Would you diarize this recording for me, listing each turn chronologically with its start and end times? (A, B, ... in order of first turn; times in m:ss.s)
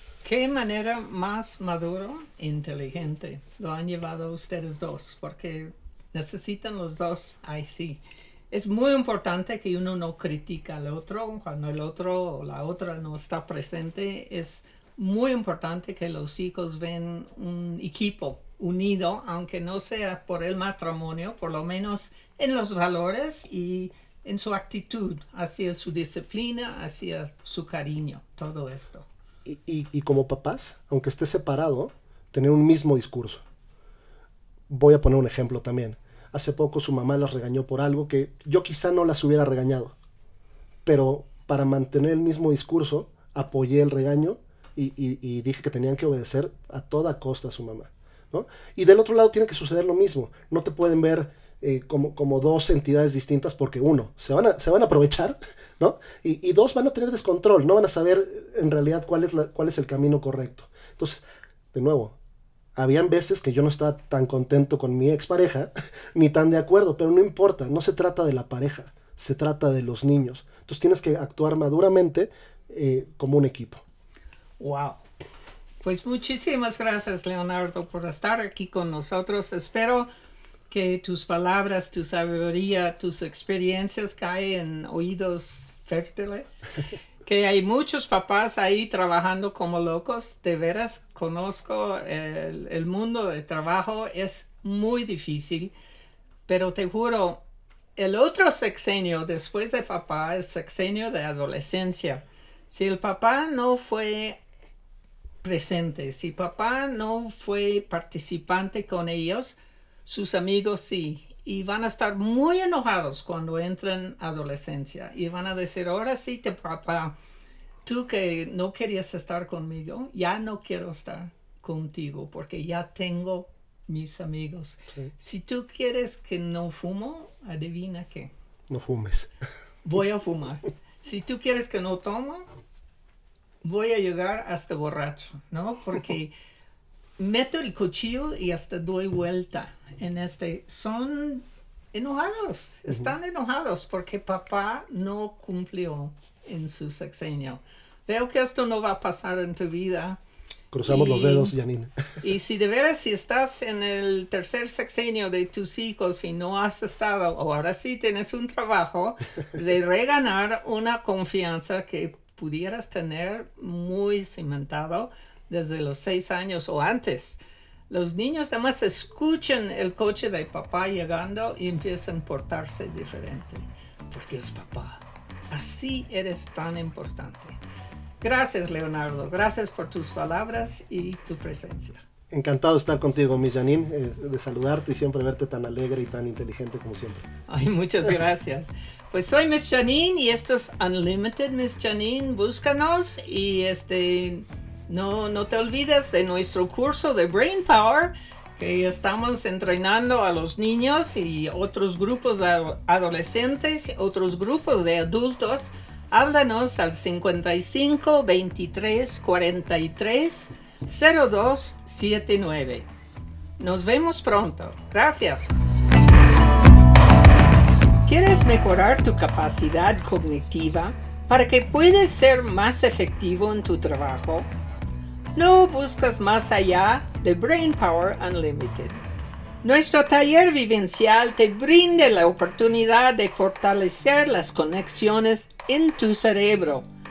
0:00.2-0:29.1 A
0:29.4-0:33.4 B
0:34.7-0:40.0 B
0:40.8-1:02.2 B
1:02.8-1:13.8 B
1:14.6-1:15.0 A
1:15.8-1:20.1 A
1:20.7-1:35.7 A
1:36.5-1:37.4 A
1:38.0-1:44.4 A
1:45.4-1:57.2 A
1:57.8-2:08.3 A
2:08.7-2:09.3 B
2:09.8-2:12.4 A
2:13.6-2:16.3 A
2:17.2-2:30.2 A
2:30.7-2:31.9 B
2:30.8-2:31.5 A
2:32.2-2:57.6 A
2:58.2-3:02.0 A
3:02.3-3:07.3 B
3:07.5-3:32.9 A
3:33.6-3:35.6 A
3:38.0-3:44.5 A
3:45.3-3:49.0 A
3:49.6-3:56.8 A